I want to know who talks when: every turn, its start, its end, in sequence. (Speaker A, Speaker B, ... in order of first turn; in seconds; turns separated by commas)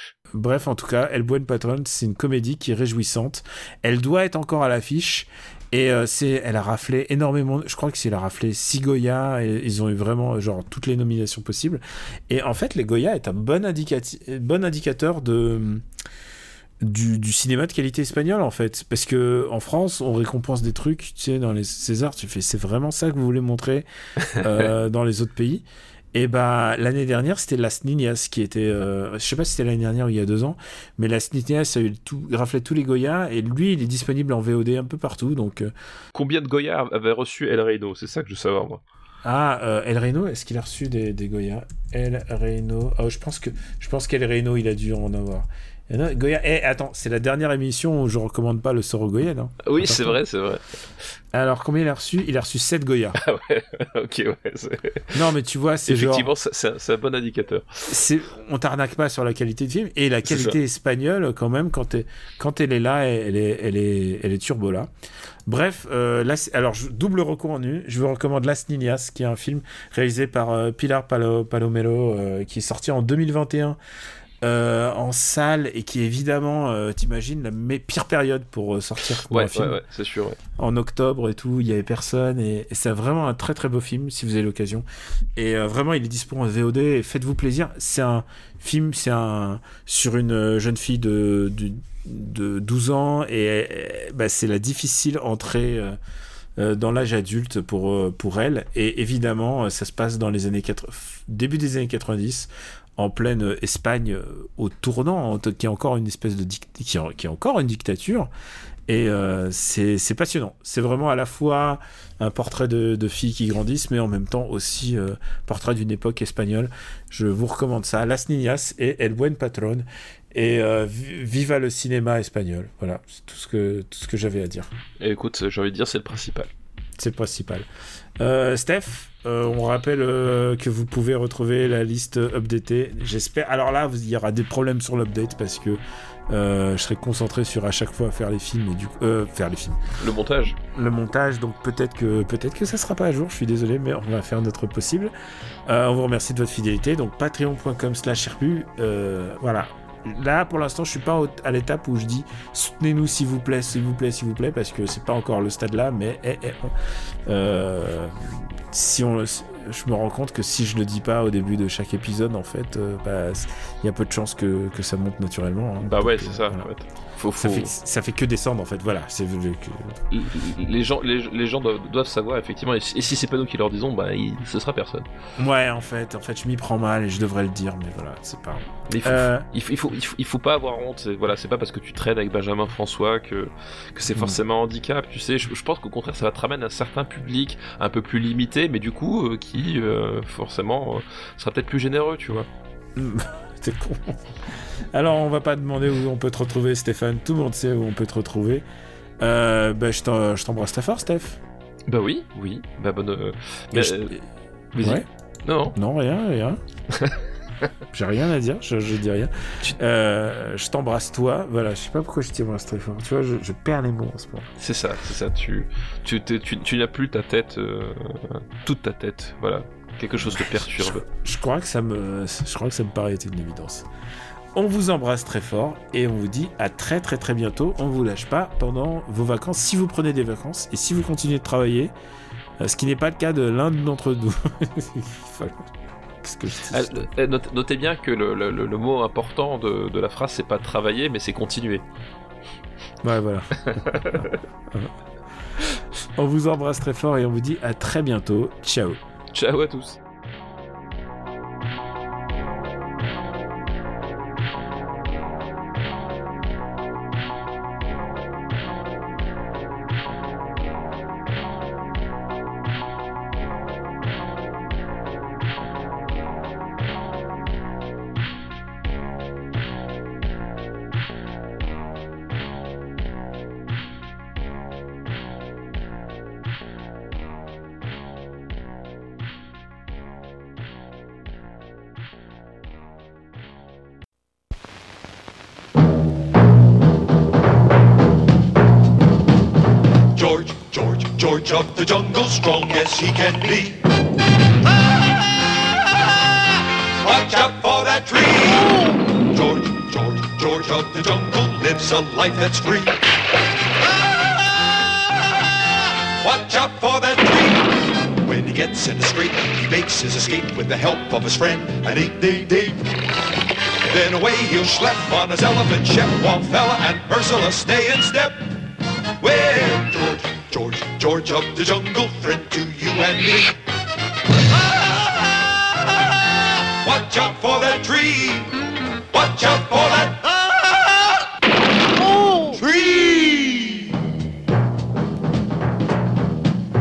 Speaker A: 0.3-15.9, Speaker A: 16.8-35.7, Speaker B: 36.1-38.8, Speaker A: 39.2-50.2, Speaker B: 49.6-50.6, Speaker A: 51.3-53.2, Speaker B: 53.2-55.2, Speaker A: 55.1-56.3, Speaker B: 55.9-57.9, Speaker A: 57.8-64.9, Speaker B: 60.3-60.6, Speaker A: 65.5-73.8, Speaker A: 74.4-79.8, Speaker B: 79.3-80.4, Speaker A: 80.6-96.0, Speaker A: 96.6-108.3, Speaker A: 108.9-124.7, Speaker B: 125.0-126.5, Speaker A: 127.0-127.7, Speaker A: 128.2-139.8, Speaker B: 140.0-140.6, Speaker A: 140.6-145.1, Speaker A: 145.7-156.8, Speaker A: 157.3-166.7, Speaker B: 165.8-167.7, Speaker A: 167.4-170.0, Speaker B: 170.1-175.1, Speaker A: 175.4-179.5, Speaker B: 178.9-192.5, Speaker A: 193.0-198.7, Speaker A: 199.2-201.4, Speaker B: 201.9-204.2, Speaker A: 203.7-204.2, Speaker B: 204.7-205.8, Speaker A: 204.8-205.1, Speaker A: 205.8-206.6, Speaker B: 206.9-207.7, Speaker A: 207.9-214.5, Speaker B: 214.6-221.0, Speaker A: 220.2-223.9, Speaker A: 224.5-231.9, Speaker A: 232.6-237.0, Speaker B: 236.7-241.8, Speaker A: 243.0-244.9, Speaker B: 243.6-244.4, Speaker A: 245.8-249.0, Speaker B: 249.3-250.0, Speaker C: 290.1-293.8, Speaker C: 297.0-303.1, Speaker C: 306.2-313.1, Speaker C: 313.8-318.6, Speaker C: 319.2-323.6, Speaker C: 324.6-325.2, Speaker C: 326.8-328.5, Speaker C: 329.1-331.2, Speaker C: 332.0-334.0